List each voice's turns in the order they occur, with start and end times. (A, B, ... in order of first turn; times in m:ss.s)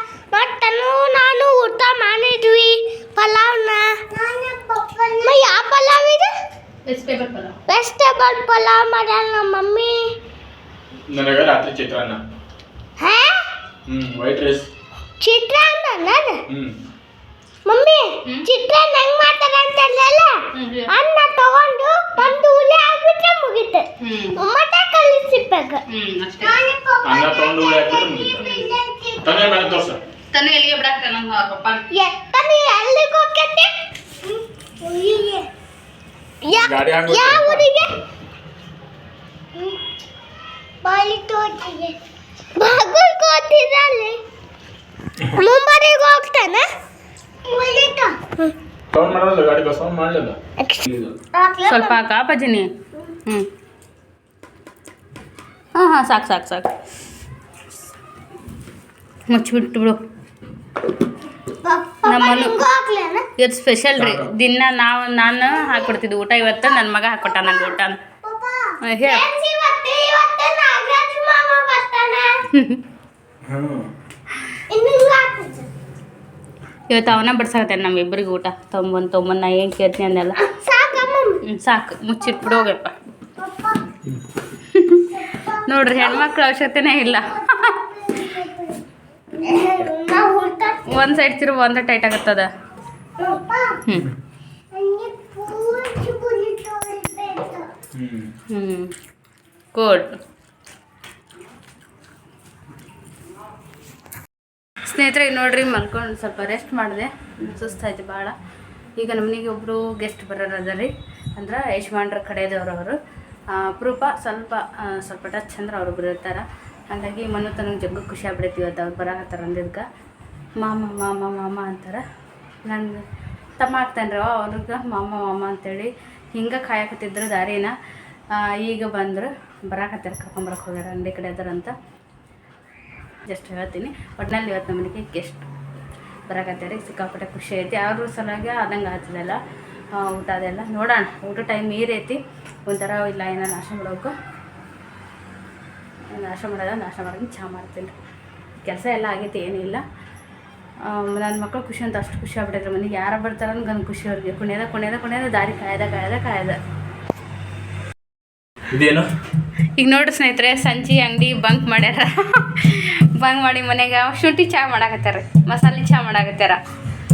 0:00.3-0:06.3 A
0:06.8-0:07.6 B
0:07.7-0:10.1 A
0:11.1-0:12.2 C
0:13.0-0:13.4 A
0:13.9-0:14.7 C
0:15.2-0:16.4 A
0:16.5-0:16.8 C
0:17.6-0:25.8 A
0:20.5-0:20.9 B
0:24.0-0:24.4 B
0:25.9-0:26.6 B
0:26.4-0:29.8 A
0:27.0-0:28.4 C
0:28.4-0:28.8 B
0:29.2-0:30.0 C
0:30.3-0:31.8 B
0:31.9-0:35.5 A
0:36.4-0:37.9 A
0:36.5-0:37.6 C
0:40.8-0:42.0 A
0:42.6-0:44.2 A
0:45.3-0:46.6 A
0:47.4-0:48.5 A
0:48.9-0:51.1 C
0:50.6-0:52.0 A
0:51.7-0:52.7 B
0:55.7-0:56.7 B
0:59.3-1:00.0 B
1:01.6-1:03.3 A
1:02.0-1:02.6 B
1:03.4-1:08.0 B
1:04.0-1:04.3 C
1:05.6-1:05.9 A
1:07.2-1:12.4 A
1:08.8-1:09.2 B
1:12.5-1:12.8 B
1:13.4-1:13.9 C
1:14.7-1:15.7 A
1:16.9-1:20.4 B
1:20.4-1:21.4 A
1:21.4-1:22.9 B
1:23.4-1:23.8 A
1:24.7-1:25.1 B
1:25.2-1:26.3 A
1:25.6-1:27.8 B
1:27.1-1:28.8 A
1:29.4-1:31.2 A
1:30.8-1:32.5 B
1:33.2-1:33.8 A
1:34.7-1:37.7 A
1:37.9-1:38.3 C
1:38.5-1:38.9 B
1:39.7-1:40.2 B
1:44.9-1:48.3 B
1:49.0-1:53.0 B
1:53.5-1:59.8 B
2:00.6-2:02.0 B
2:02.6-2:03.0 B
2:03.6-2:07.8 B
2:08.3-2:11.7 B
2:13.3-2:15.4 B
2:16.3-2:19.4 B
2:19.9-2:24.1 B
2:26.1-2:27.9 B
2:28.6-2:29.8 B
2:30.8-2:36.6 B
2:38.7-2:39.0 C
2:39.8-2:46.6 B